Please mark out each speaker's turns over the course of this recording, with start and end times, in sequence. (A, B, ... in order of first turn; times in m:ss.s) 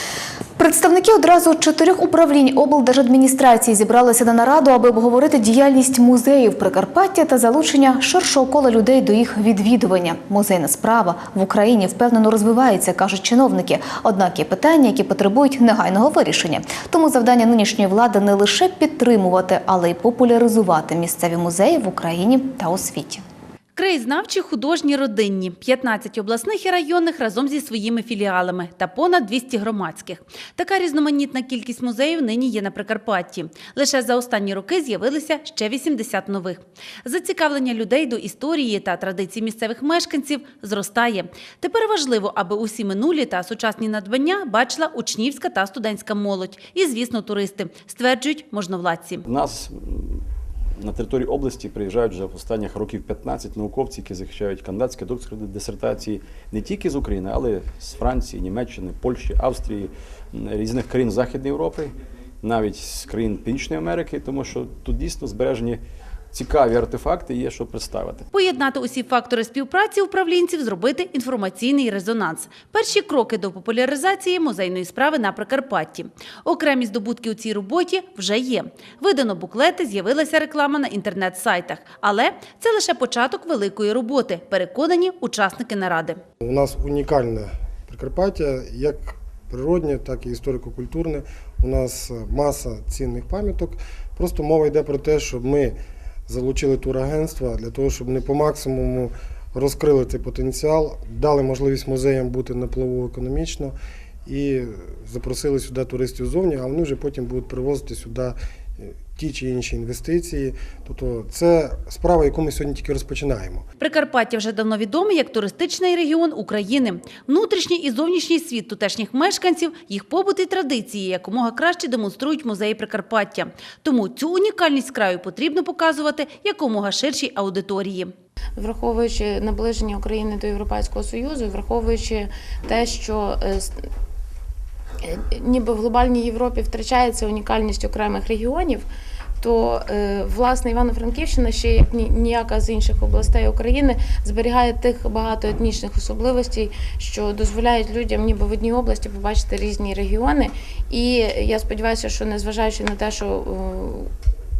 0:00.6-0:23.2 A
0:23.7-0:49.2 B
0:49.2-0:50.2 C
0:50.8-1:08.3 C
1:08.3-1:26.2 B
1:26.4-1:35.8 D
1:36.3-1:43.7 D
1:44.2-1:53.6 D
1:53.8-2:08.1 B
2:08.6-2:13.7 E
2:15.0-2:18.8 E
2:19.4-2:34.1 E